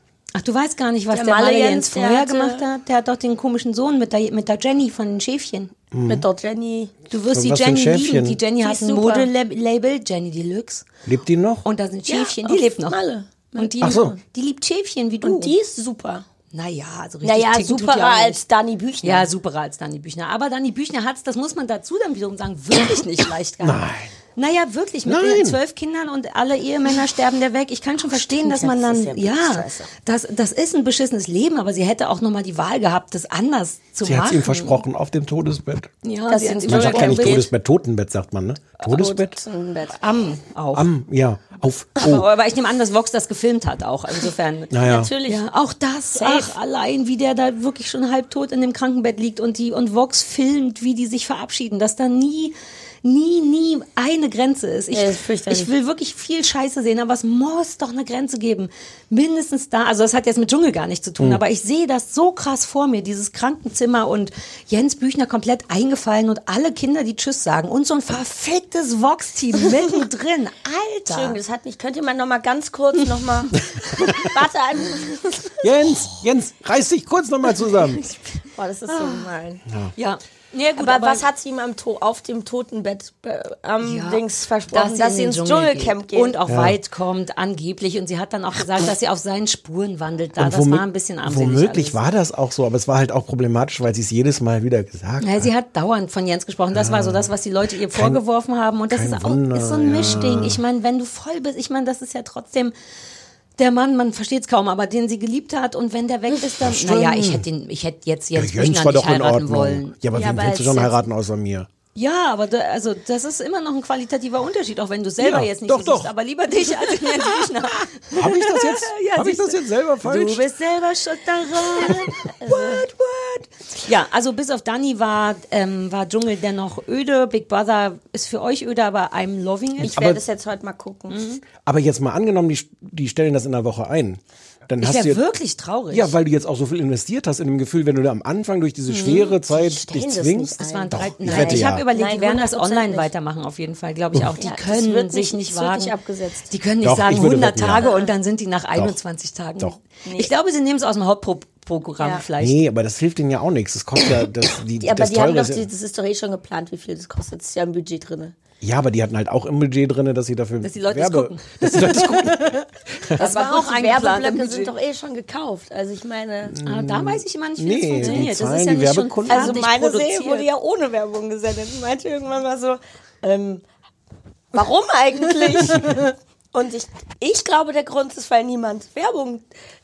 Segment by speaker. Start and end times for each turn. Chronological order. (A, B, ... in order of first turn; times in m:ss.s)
0:00.3-0:05.7 A
0:01.1-0:02.6 B
0:05.9-0:06.2 C
0:06.0-0:06.9 B
0:07.1-0:10.8 A
0:07.3-0:08.4 C
0:08.6-0:09.3 B
0:11.0-0:11.6 C
0:11.6-0:13.0 A
0:12.0-0:14.2 B
0:13.6-0:15.5 A
0:13.8-0:14.1 C
0:15.2-0:16.2 B
0:16.5-0:18.4 A
0:17.2-0:19.3 B
0:19.0-0:34.8 A
0:23.6-0:24.1 C
0:25.0-0:25.6 C
0:28.1-0:29.9 B
0:34.0-0:35.9 C
0:36.0-0:37.4 A
0:36.3-0:37.5 B
0:36.7-0:39.3 C
0:38.8-0:40.0 B
0:40.0-0:40.8 A
0:40.7-0:42.2 C
0:42.0-0:44.7 A
0:44.7-0:45.1 C
0:44.8-0:45.4 B
0:45.3-1:11.4 A
0:46.2-0:46.5 B
0:54.9-0:55.7 B
1:11.1-1:15.6 B
1:13.9-1:14.3 A
1:15.6-1:18.0 C
1:18.4-1:19.6 B
1:18.9-1:19.3 A
1:20.0-1:21.2 A
1:20.8-1:26.4 B
1:23.8-1:32.0 A
1:26.5-1:26.8 C
1:30.4-1:35.5 C
1:35.2-1:42.7 A
1:36.7-1:37.3 C
1:37.9-1:38.2 C
1:38.9-1:40.6 C
1:43.6-1:49.9 A
1:46.6-1:47.4 C
1:48.4-1:51.7 C
1:50.1-1:51.0 B
1:52.0-2:10.1 A
1:55.2-1:56.1 C
1:58.1-2:00.4 C
2:02.4-2:02.8 B
2:09.8-2:11.2 B
2:09.9-2:10.2 C
2:11.1-2:11.4 A
2:11.6-2:15.2 C
2:14.8-2:16.1 A
2:15.9-2:21.8 C
2:18.9-2:19.3 A
2:19.4-2:23.1 B
2:20.6-2:25.9 A
2:24.4-2:26.5 B
2:26.5-2:32.6 A
2:26.8-2:27.8 C
2:27.8-2:28.1 B
2:32.4-2:35.6 C
2:34.8-2:38.4 B
2:38.6-2:43.2 C
2:40.6-2:44.7 A
2:43.2-2:46.6 B
2:46.5-2:49.6 C
2:46.6-2:50.4 A
2:48.0-2:48.3 B
2:49.3-2:53.6 B
2:54.5-2:59.4 B
2:55.5-2:56.0 A